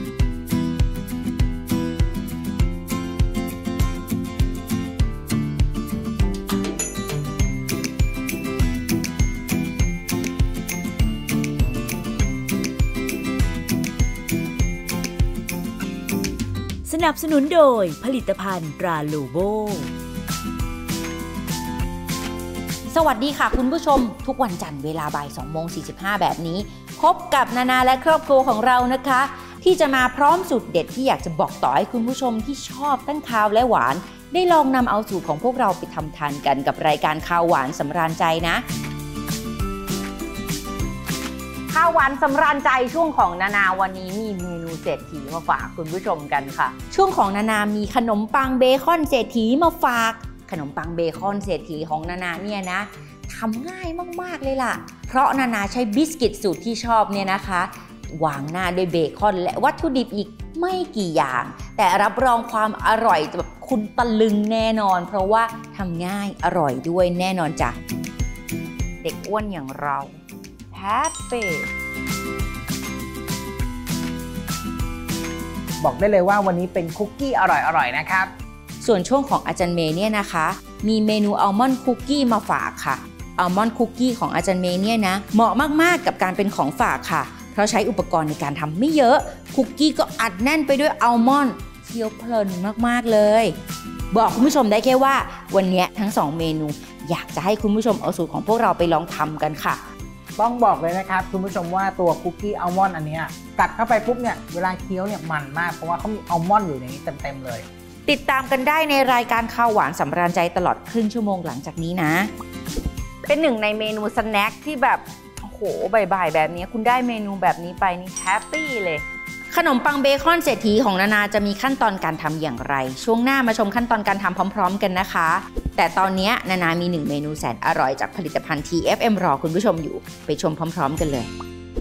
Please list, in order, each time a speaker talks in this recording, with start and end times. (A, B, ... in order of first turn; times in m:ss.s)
0:16.8-0:19.9 A
0:22.9-0:38.6 B
0:41.7-1:07.8 B
1:09.0-1:10.2 B
1:10.7-1:11.7 B
1:15.8-1:18.3 C
1:18.8-1:33.5 B
1:34.1-1:39.8 B
1:40.4-1:47.6 C
1:48.0-1:52.3 B
1:53.3-2:11.3 B